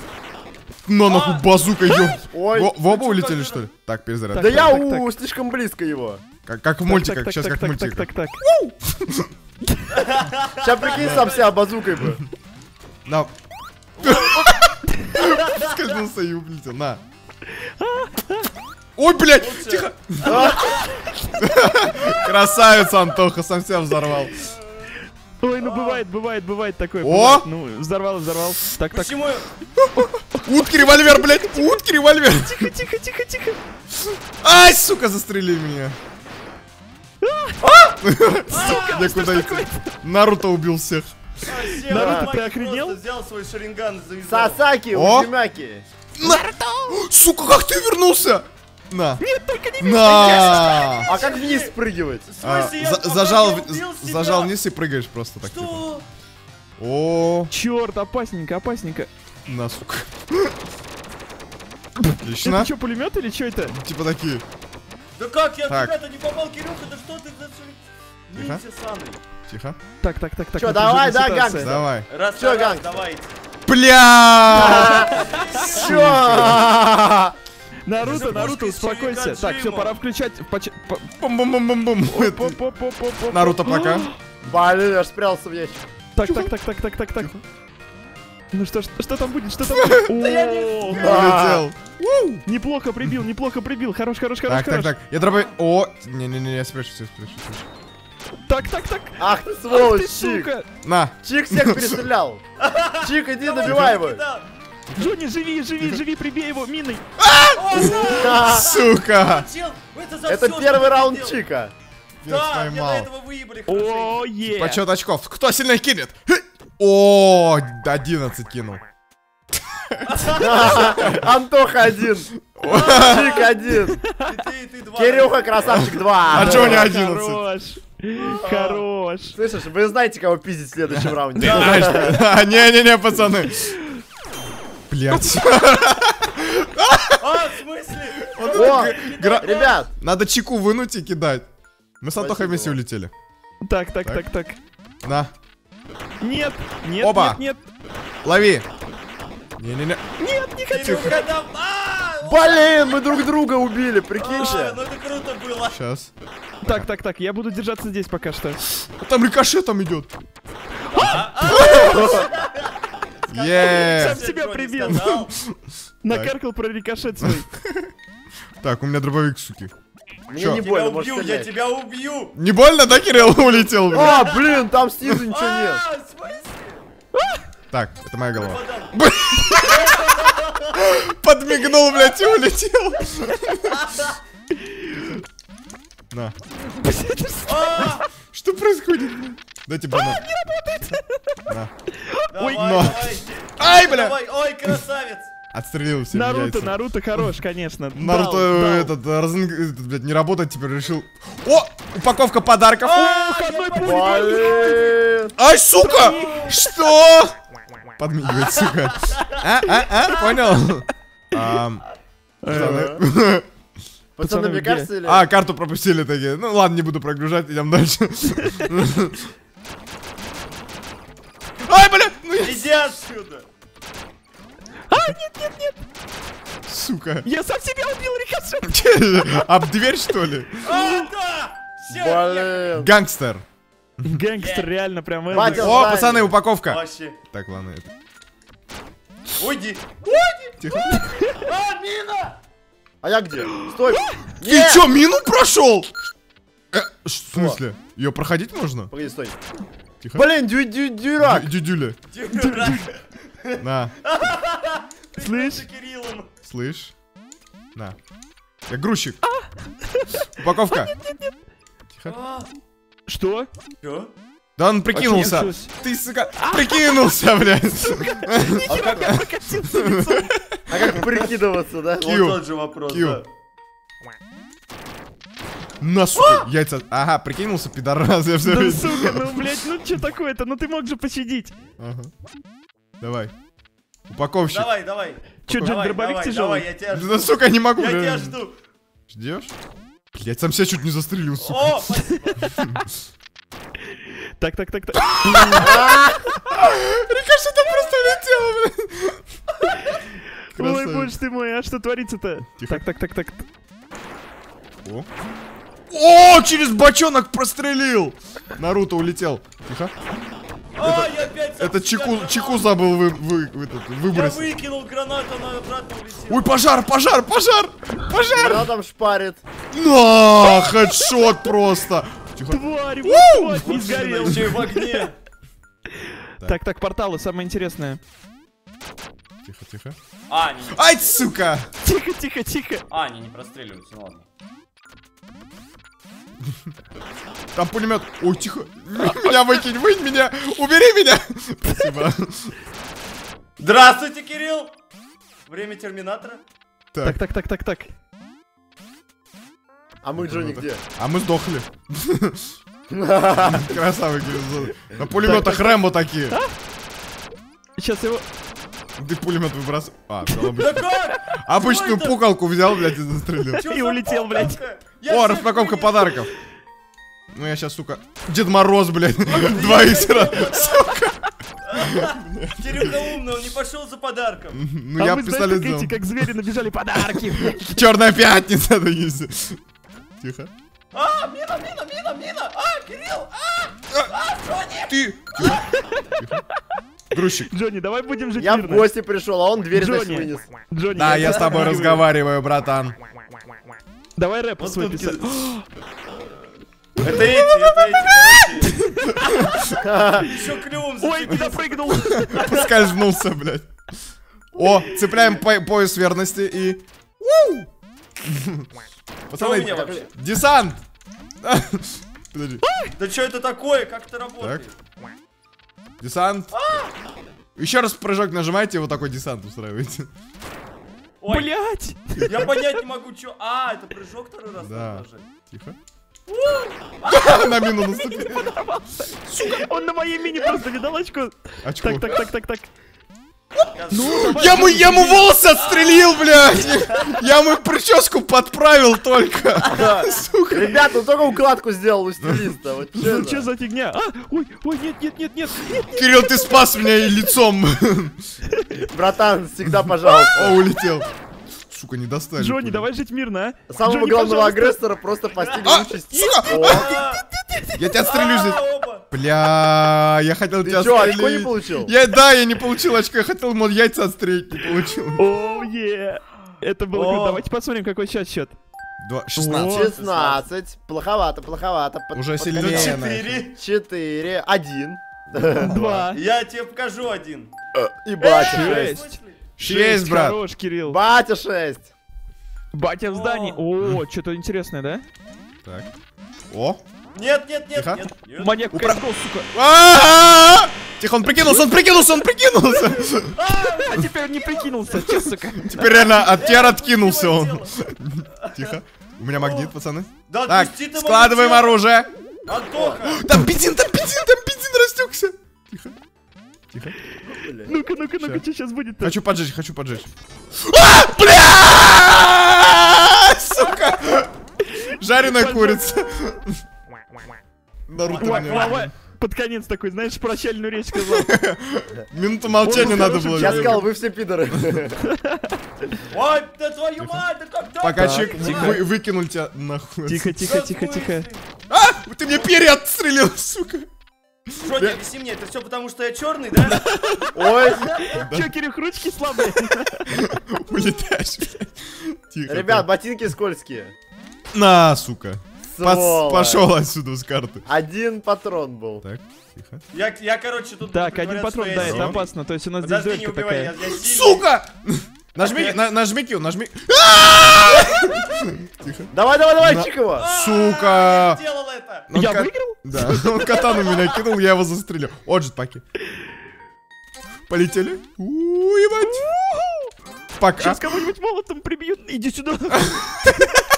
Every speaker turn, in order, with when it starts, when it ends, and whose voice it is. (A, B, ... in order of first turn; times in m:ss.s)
0:00.9-0:04.8 A
0:01.0-0:02.2 B
0:02.3-0:02.8 C
0:02.8-0:03.7 B
0:04.3-0:05.1 D
0:04.4-0:06.2 C
0:06.4-0:09.3 A
0:06.9-0:08.4 D
0:09.9-0:11.6 B
0:10.6-0:12.2 C
0:11.0-0:11.2 A
0:13.1-0:13.3 A
0:14.0-0:14.5 B
0:14.0-0:17.0 A
0:15.2-0:15.8 B
0:17.6-0:18.5 D
0:19.0-0:20.5 A
0:19.4-0:20.9 B
0:20.3-0:20.7 C
0:21.4-0:24.3 A
0:25.4-0:29.2 D
0:25.6-0:26.0 B
0:27.0-0:27.5 A
0:28.9-0:29.5 B
0:29.8-0:32.7 A
0:30.3-0:31.8 D
0:32.3-0:33.6 D
0:34.4-0:36.0 A
0:37.2-0:37.6 D
0:37.6-0:38.0 B
0:38.0-0:41.1 A
0:38.5-0:39.1 B
0:38.6-0:39.9 D
0:41.4-0:44.6 B
0:41.9-0:43.0 D
0:41.9-0:42.4 C
0:44.3-0:45.8 C
0:44.9-0:45.3 A
0:46.2-0:49.2 A
0:46.2-0:47.0 D
0:49.2-0:51.0 D
0:49.8-0:51.1 A
0:50.1-0:51.7 B
0:51.0-0:52.3 C
0:52.3-0:54.6 B
0:52.4-0:55.8 A
0:55.4-0:56.0 B
0:56.8-0:57.5 A
0:57.5-0:59.1 D
0:59.5-1:00.6 A
1:02.1-1:02.7 A
1:02.4-1:03.8 D
1:03.7-1:04.4 A
1:05.2-1:09.2 B
1:05.7-1:05.9 A
1:08.3-1:08.6 A
1:09.5-1:09.8 A
1:10.0-1:11.7 D
1:10.6-1:13.0 C
1:11.6-1:12.1 A
1:12.1-1:13.3 B
1:13.7-1:15.1 A
1:14.5-1:15.1 C
1:14.8-1:15.9 B
1:15.7-1:17.4 C
1:15.7-1:16.6 A
1:17.9-1:21.1 D
1:18.0-1:18.5 A
1:18.0-1:20.0 B
1:21.2-1:22.6 A
1:22.1-1:24.2 D
1:23.3-1:24.1 A
1:24.4-1:25.8 C
1:26.2-1:27.3 D
1:26.2-1:26.5 A
1:28.5-1:31.0 D
1:29.6-1:30.2 A
1:30.1-1:31.4 B
1:30.9-1:31.7 C
1:30.9-1:32.4 A
1:32.4-1:34.9 D
1:34.5-1:37.6 A
1:38.4-1:40.7 D
1:39.2-1:40.5 C
1:40.8-1:42.0 A
1:41.2-1:42.4 C
1:42.6-1:44.5 B
1:43.0-1:44.2 C
1:43.6-1:43.9 A
1:44.9-1:45.2 A
1:45.0-1:47.0 D
1:47.2-1:49.5 A
1:47.6-1:51.4 B
1:47.8-1:48.7 C
1:50.3-1:51.7 C
1:52.2-1:53.1 A
1:52.3-1:54.2 B
1:53.7-1:54.8 D
1:54.4-1:58.8 A
1:59.8-2:00.1 A
2:00.1-2:01.0 B
2:00.4-2:04.0 C
2:00.6-2:01.3 A
2:02.5-2:03.4 A
2:02.6-2:03.7 B
2:04.2-2:06.8 B
2:05.0-2:06.9 C
2:06.3-2:07.4 A
2:06.4-2:09.4 D
2:08.2-2:08.8 B
2:09.3-2:12.2 C
2:11.0-2:13.8 A
2:11.4-2:12.2 B
2:14.9-2:17.2 A
2:17.2-2:19.8 B
2:18.3-2:21.5 A
2:18.5-2:19.9 C
2:22.0-2:23.1 A
2:22.2-2:22.8 C
2:23.6-2:24.6 D
2:25.0-2:25.3 A
2:26.2-2:27.6 D
2:27.0-2:27.4 A
2:28.2-2:28.7 A
2:29.6-2:30.1 A
2:30.2-2:31.2 D
2:30.7-2:33.3 B
2:30.8-2:31.2 A
2:32.2-2:34.8 C
2:34.2-2:35.8 B
2:35.7-2:36.1 A
2:36.6-2:38.6 D
2:38.9-2:40.1 A
2:40.9-2:42.7 B
2:41.1-2:42.1 A
2:41.5-2:42.3 C
2:43.3-2:44.2 A
2:43.3-2:45.4 B
2:43.6-2:45.1 D
2:44.8-2:45.6 A
2:46.0-2:47.5 D
2:46.1-2:46.3 A
2:47.2-2:47.9 A
2:48.6-2:49.7 A
2:50.3-2:51.6 C
2:50.4-2:50.7 A
2:50.5-2:52.4 B
2:52.3-2:54.4 A
2:52.9-2:54.7 B
2:53.9-2:55.8 C
2:55.3-2:56.8 B
2:57.7-3:00.0 A
2:58.3-2:59.0 B
2:59.6-3:00.8 B
3:00.7-3:03.8 A
3:03.7-3:04.2 B
3:06.8-3:07.6 D
3:07.4-3:08.1 B
3:08.3-3:10.3 A
3:09.9-3:11.4 D
3:12.0-3:12.6 D
3:12.3-3:15.3 B
3:12.5-3:14.2 A
3:15.5-3:17.3 A
3:16.1-3:18.9 D
3:17.9-3:23.1 A
3:22.8-3:25.1 B
3:23.0-3:24.7 D
3:23.8-3:25.3 C
3:25.4-3:27.4 A
3:25.8-3:26.5 D
3:25.9-3:26.6 B
3:28.0-3:31.8 A
3:28.2-3:30.5 B
3:32.4-3:32.9 D
3:32.5-3:33.5 A
3:32.5-3:33.0 C
3:34.2-3:35.3 C
3:34.2-3:34.9 D
3:35.0-3:39.3 A
3:41.6-3:42.6 A
3:42.4-3:43.5 B
3:44.9-3:45.8 D
3:46.7-3:47.3 A
3:47.2-3:48.8 D
3:48.6-3:50.8 A
3:50.6-3:52.8 B
3:51.9-3:52.9 C
3:52.8-3:53.4 A
3:54.0-3:55.8 D
3:54.4-3:54.7 B
3:55.3-3:55.9 B
3:55.3-3:56.3 C
3:55.6-3:57.9 A
3:56.6-3:57.2 B
3:59.4-4:00.5 B
4:00.6-4:01.0 A
4:00.9-4:01.4 D
4:01.4-4:02.4 B
4:03.0-4:04.9 C
4:04.4-4:05.9 A
4:06.7-4:08.9 A
4:07.4-4:07.6 C
4:08.9-4:09.4 C
4:10.2-4:11.5 C
4:11.2-4:12.0 A
4:12.1-4:16.3 B
4:12.3-4:12.8 D
4:13.6-4:13.9 A
4:15.2-4:15.7 D
4:16.4-4:16.9 A
4:18.7-4:19.2 A
4:19.3-4:20.3 D
4:20.4-4:20.9 A
4:20.8-4:21.3 D
4:22.1-4:22.5 B
4:23.1-4:23.5 D
4:23.8-4:24.1 B
4:24.6-4:31.0 A
4:24.9-4:25.7 D
4:26.4-4:26.8 D
4:28.1-4:30.3 D
4:28.7-4:29.1 C
4:30.7-4:32.2 C
4:32.0-4:33.2 B
4:32.0-4:33.2 A
4:35.8-4:39.4 A
4:36.2-4:36.5 B
4:38.4-4:41.5 D
4:41.8-4:42.1 A
4:43.0-4:43.3 A
4:44.1-4:44.7 A
4:44.4-4:48.6 B
4:45.5-4:46.7 D
4:45.5-4:45.8 A
4:46.9-4:48.4 A
4:49.1-4:49.5 A
4:50.1-4:51.9 A
4:51.4-4:52.6 B
4:52.5-4:52.8 A
4:54.4-4:55.8 D
4:55.2-4:59.2 A
4:55.5-4:56.3 C
5:00.5-5:03.4 D
5:00.5-5:01.1 A
5:02.6-5:02.8 A
5:05.9-5:09.9 A
5:10.8-5:13.0 B
5:10.8-5:14.5 A
5:14.1-5:16.5 B
5:16.3-5:18.7 A
5:18.3-5:19.4 C
5:19.7-5:24.7 A
5:22.5-5:24.9 D
5:23.6-5:25.2 B
5:26.4-5:28.0 D
5:29.4-5:30.0 A
5:30.3-5:31.2 B
5:30.7-5:31.7 A
5:31.8-5:32.8 D
5:32.9-5:34.2 B
5:37.5-5:42.5 A
5:43.6-5:44.7 B
5:45.5-5:46.4 B
5:46.9-5:47.2 A
5:47.0-5:47.9 D
5:50.0-5:50.8 C
5:50.2-5:52.5 A
5:52.9-5:53.8 C
5:53.4-5:56.4 A
5:55.2-5:55.7 D
5:57.8-5:58.2 D
5:59.0-6:00.9 A
6:00.6-6:02.2 B
6:01.4-6:03.6 A
6:03.5-6:06.3 B
6:03.6-6:04.6 D
6:05.1-6:06.3 A
6:07.3-6:13.0 A
6:09.3-6:11.0 B
6:11.7-6:14.6 B
6:14.5-6:16.2 A
6:15.0-6:17.8 D
6:17.0-6:19.6 A
6:20.2-6:20.5 A
6:20.9-6:25.5 B
6:24.9-6:26.4 A
6:27.1-6:27.5 A
6:27.5-6:28.9 D
6:28.4-6:30.5 C
6:29.7-6:32.0 D
6:31.0-6:33.0 A
6:34.2-6:35.6 D
6:34.6-6:35.5 B
6:37.0-6:38.9 B
6:37.1-6:39.5 D
6:39.8-6:40.3 C
6:40.2-6:42.6 B
6:41.0-6:42.7 D
6:41.9-6:43.7 A
6:44.5-6:47.7 A
6:45.0-6:45.4 B
6:48.2-6:48.7 A
6:49.3-6:50.8 A
6:49.3-6:50.1 B
6:51.4-6:52.6 A
6:52.6-6:52.9 D
6:53.0-6:54.7 B
6:56.0-6:56.5 A
6:56.5-6:56.9 B
6:57.6-7:00.1 A
7:01.2-7:01.5 B
7:01.3-7:02.5 D
7:02.2-7:02.5 A
7:02.3-7:05.3 B
7:04.6-7:05.8 A
7:06.3-7:07.6 B
7:07.1-7:08.5 A
7:07.9-7:12.7 D
7:11.6-7:12.2 A
7:13.7-7:14.8 B
7:13.9-7:15.3 D
7:14.0-7:20.8 A
7:15.6-7:17.1 B
7:19.7-7:23.5 C
7:22.2-7:22.5 A
7:23.0-7:26.6 D
7:25.9-7:28.2 A
7:28.6-7:28.8 D
7:28.9-7:30.6 C
7:30.2-7:31.1 A
7:31.7-7:32.9 A
7:32.4-7:34.8 D
7:33.7-7:36.9 C
7:35.6-7:37.0 A
7:36.5-7:37.3 B
7:37.4-7:37.8 D
7:37.8-7:45.2 A
7:38.0-7:39.0 B
7:40.6-7:41.9 C
7:45.2-7:48.6 D
7:46.9-7:47.4 B
7:49.0-7:49.9 A
7:49.4-7:49.9 D
7:49.6-7:53.0 C
7:49.9-7:50.4 B
7:52.1-7:53.4 A
7:52.5-7:53.6 B
7:53.5-7:55.8 C
7:55.6-7:56.2 D
7:56.1-7:57.5 B
7:57.8-7:59.0 C
7:58.2-7:59.4 B
7:58.2-8:01.0 D
7:59.6-8:00.4 A
8:00.9-8:01.9 C
8:02.7-8:05.0 D
8:03.1-8:03.6 B
8:05.6-8:05.9 A
8:06.5-8:06.8 A
8:07.2-8:08.6 B
8:07.7-8:08.0 A
8:08.4-8:09.5 D
8:08.7-8:13.4 A
8:13.3-8:14.7 B
8:13.8-8:15.8 D
8:15.0-8:22.1 A
8:15.8-8:17.7 B
8:18.4-8:18.8 B
8:19.3-8:19.7 B
8:20.3-8:21.8 B
8:22.5-8:23.2 B
8:22.8-8:23.0 C
8:23.1-8:26.0 A
8:27.2-8:27.8 C
8:27.7-8:29.1 D
8:28.2-8:28.4 A
8:29.0-8:30.1 A
8:30.7-8:34.3 A
8:34.9-8:36.6 A
8:35.2-8:36.1 D
8:37.9-8:38.9 A
8:38.0-8:38.9 B
8:38.2-8:41.3 D
8:40.9-8:43.8 A
8:42.6-8:43.8 D
8:42.6-8:45.0 C
8:45.2-8:45.5 D
8:46.1-8:48.9 B
8:47.8-8:50.4 A
8:48.0-8:48.8 D
8:50.1-8:51.3 D
8:50.4-8:51.4 B
8:51.7-8:53.9 A
8:54.6-8:55.0 A
8:54.6-8:56.8 B
8:57.3-8:58.0 C
8:57.9-8:58.5 A
8:58.0-9:00.1 D
9:00.1-9:02.9 A
9:02.5-9:03.9 C
9:04.5-9:07.6 A
9:05.7-9:06.7 C
9:07.7-9:09.0 C
9:09.0-9:09.8 A
9:09.9-9:14.4 B
9:10.9-9:13.7 D
9:11.8-9:12.2 A
9:13.8-9:21.4 A
9:15.4-9:15.8 B
9:19.1-9:20.3 C
9:20.2-9:22.1 B
9:22.1-9:25.8 A
9:22.1-9:23.4 D
9:23.8-9:24.2 B
9:27.5-9:29.3 A
9:29.0-9:29.9 D
9:30.4-9:30.8 A
9:30.6-9:33.5 D